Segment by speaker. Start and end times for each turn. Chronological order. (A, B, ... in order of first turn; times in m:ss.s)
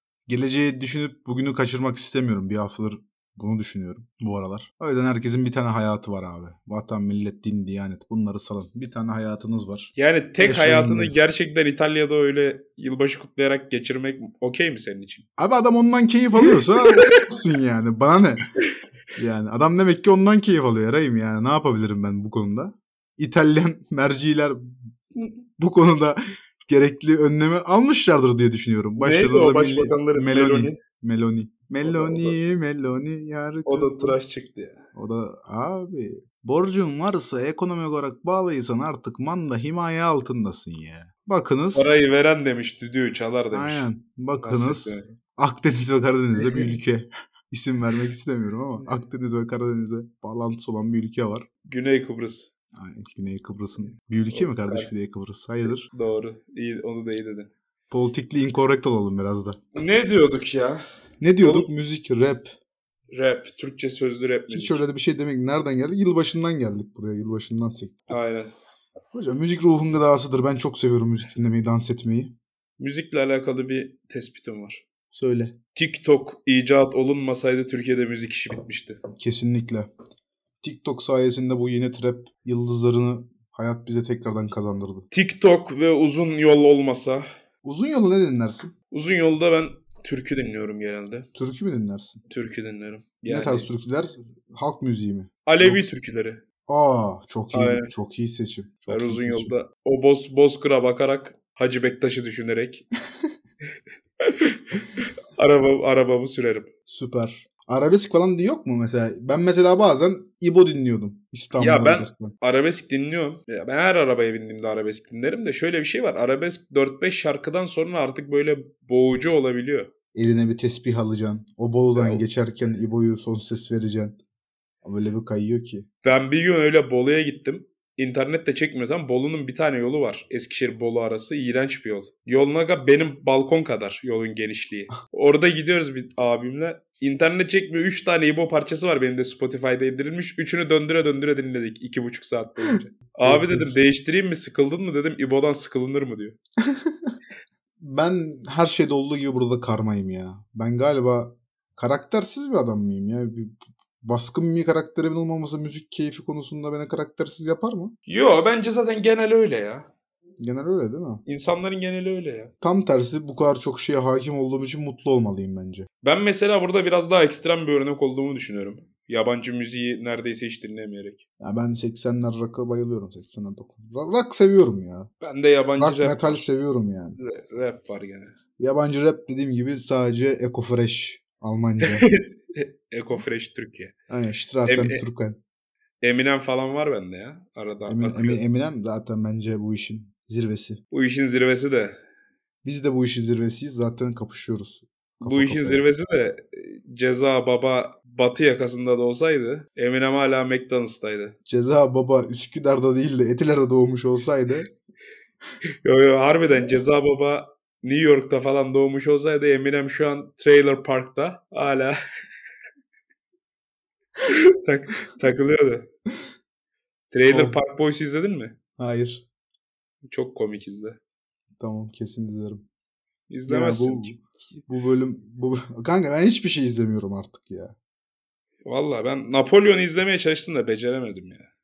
0:00.3-0:11.2 A
0:10.0-0:15.2 B
0:15.4-0:18.5 A
0:16.4-0:17.2 B
0:19.2-0:24.7 A
0:25.6-0:34.2 A
0:29.0-0:30.8 B
0:31.8-0:32.4 B
0:33.6-0:34.8 B
0:34.9-0:41.9 A
0:41.7-0:43.9 B
0:43.5-0:51.4 A
0:44.4-0:45.1 B
0:46.4-0:46.8 B
0:51.6-0:52.5 B
0:52.7-0:55.9 A
0:54.3-0:54.9 B
0:55.8-0:57.5 B
0:57.9-0:59.6 A
0:59.7-1:00.8 B
1:01.2-1:02.5 A
1:01.4-1:01.7 B
1:03.1-1:04.8 B
1:04.5-1:08.1 A
1:08.1-1:08.5 B
1:09.1-1:12.3 A
1:12.8-1:14.8 B
1:15.1-1:15.6 A
1:15.7-1:19.0 B
1:19.2-1:19.9 A
1:20.6-1:25.1 A
1:25.1-1:27.3 B
1:27.6-1:28.7 A
1:28.9-1:31.3 B
1:31.3-1:32.2 A
1:32.3-1:33.7 B
1:33.3-1:35.9 A
1:35.4-1:36.4 B
1:36.7-1:39.5 A
1:37.5-1:37.9 B
1:38.9-1:42.9 B
1:44.2-1:46.7 B
1:46.9-1:52.3 A
1:51.6-1:59.9 B
2:00.1-2:04.2 A
2:02.0-2:02.2 B
2:04.8-2:05.8 A
2:06.0-2:26.4 B
2:23.2-2:23.7 A
2:26.6-2:27.1 A
2:27.8-2:37.9 A
2:38.1-2:39.9 B
2:40.4-2:41.2 A
2:41.2-2:42.5 B
2:42.6-2:45.9 A
2:46.0-2:51.2 B
2:51.4-2:55.1 A
2:55.2-2:56.4 B
2:55.8-2:57.2 A
2:57.2-2:58.3 B
2:58.6-3:02.1 A
3:01.8-3:03.9 B
3:04.1-3:05.4 A
3:04.7-3:05.0 B
3:06.0-3:08.4 B
3:07.9-3:10.8 A
3:10.9-3:12.0 B
3:12.6-3:15.8 A
3:15.2-3:21.3 B
3:21.5-3:24.7 A
3:25.8-3:32.0 B
3:34.2-3:35.9 B
3:37.1-3:38.6 B
3:37.3-3:37.6 A
3:38.8-3:39.2 A
3:40.1-3:41.0 B
3:41.6-3:42.6 A
3:43.3-3:44.1 B
3:43.5-3:47.8 A
3:48.6-3:51.5 B